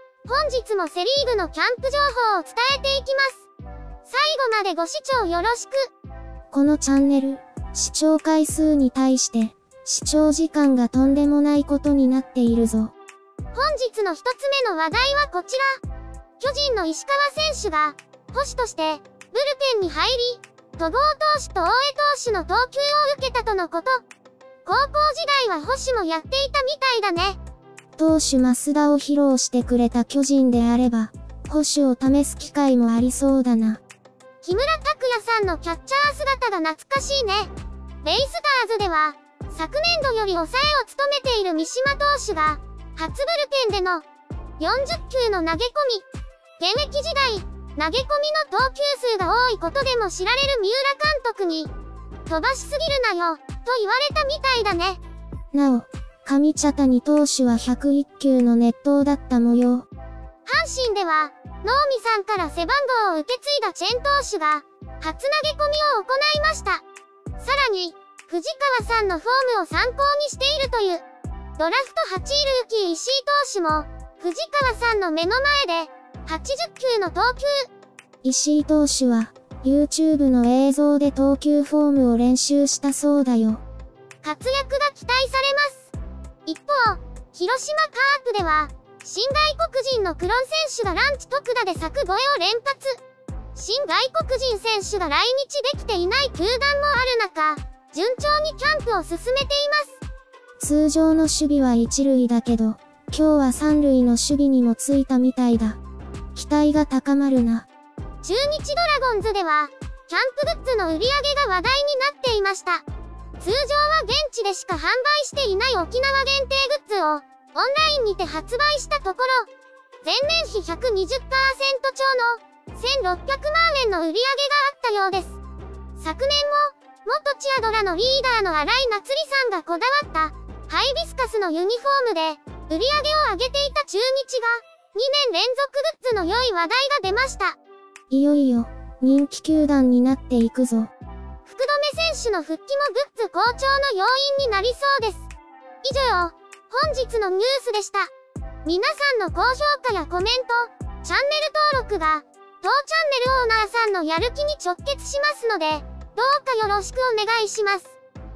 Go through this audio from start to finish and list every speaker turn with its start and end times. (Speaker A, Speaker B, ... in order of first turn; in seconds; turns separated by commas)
Speaker A: 0.2-3.5, Speaker A: 4.1-5.9, Speaker B: 6.5-12.9, Speaker A: 13.5-15.8, Speaker A: 16.4-24.0, Speaker A: 24.6-27.4, Speaker B: 28.0-33.8, Speaker A: 34.4-37.5, Speaker A: 38.0-44.0, Speaker A: 44.6-46.0, Speaker A: 46.6-51.7, Speaker A: 52.3-55.0, Speaker B: 55.5-59.9, Speaker A: 60.5-66.8, Speaker A: 67.4-71.0, Speaker A: 71.6-77.7, Speaker B: 78.2-83.6, Speaker A: 84.2-85.9, Speaker A: 86.5-93.0, Speaker A: 93.5-100.0, Speaker B: 100.6-105.8, Speaker B: 106.3-107.7, Speaker A: 108.2-112.8, Speaker A: 113.4-119.5, Speaker A: 120.0-125.4, Speaker A: 126.0-137.6, Speaker B: 138.1-140.9, Speaker A: 141.4-145.3, Speaker A: 145.8-148.1, Speaker A: 148.6-158.0